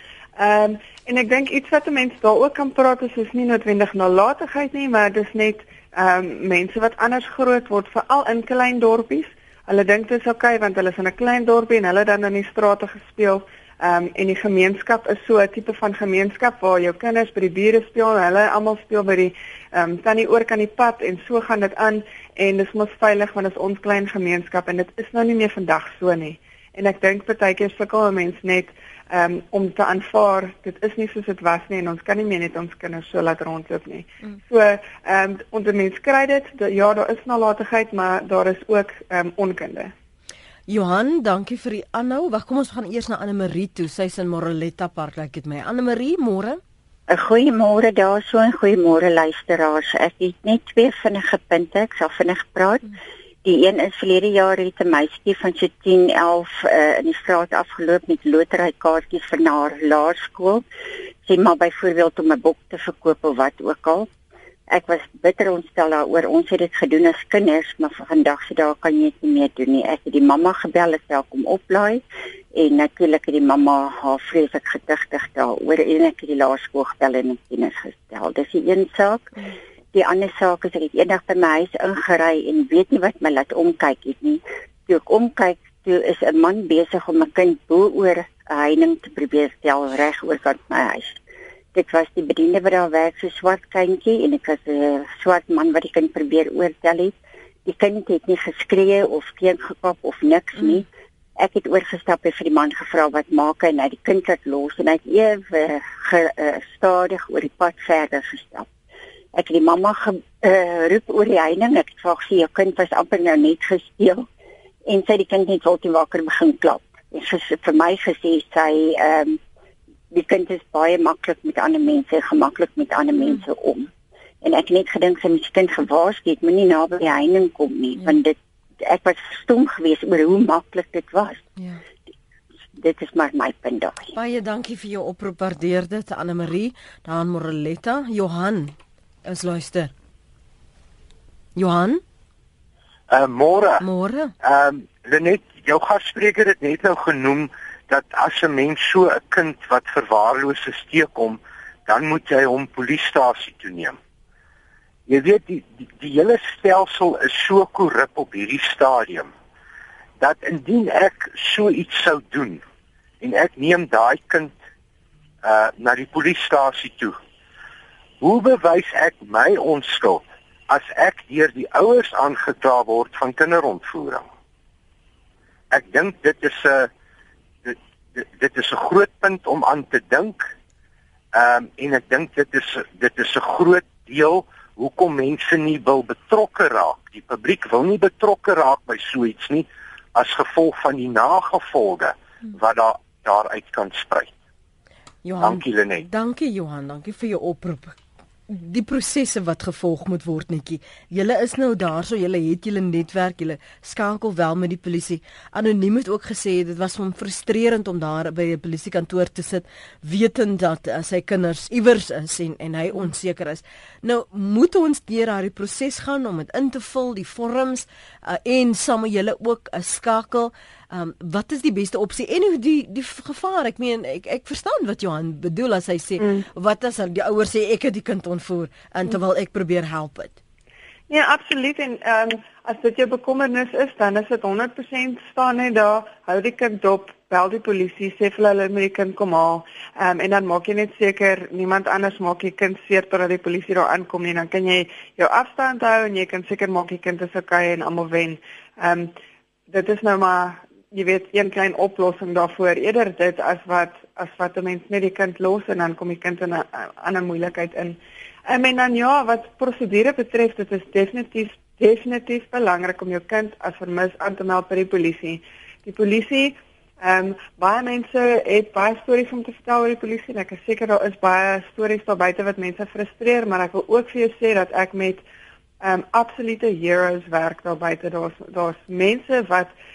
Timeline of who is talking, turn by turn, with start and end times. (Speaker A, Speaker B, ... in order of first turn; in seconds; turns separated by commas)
Speaker A: 0.4-39.9, Speaker B: 40.7-46.6, Speaker C: 47.1-52.9, Speaker C: 53.5-60.6, Speaker C: 61.2-64.1, Speaker C: 64.7-72.0, Speaker C: 72.5-79.3, Speaker C: 79.9-91.2, Speaker C: 91.8-100.9, Speaker B: 100.6-100.8, Speaker C: 101.4-108.7, Speaker C: 109.3-114.3, Speaker C: 114.9-119.4, Speaker C: 120.1-123.9, Speaker C: 124.4-131.4, Speaker C: 132.8-134.1, Speaker B: 134.1-138.7, Speaker B: 139.3-139.9, Speaker B: 141.6-142.0, Speaker D: 143.1-143.8, Speaker B: 143.8-144.3, Speaker D: 144.4-154.0, Speaker D: 155.1-159.3, Speaker D: 160.2-162.6, Speaker D: 163.2-164.6, Speaker D: 165.4-167.2, Speaker D: 168.2-174.3, Speaker D: 175.7-176.9, Speaker D: 177.6-180.5, Speaker D: 181.3-194.3, Speaker B: 195.2-198.0, Speaker D: 195.4-196.1, Speaker B: 198.5-230.3, Speaker A: 226.2-226.4, Speaker A: 231.1-249.1, Speaker A: 249.7-275.2, Speaker A: 275.8-279.7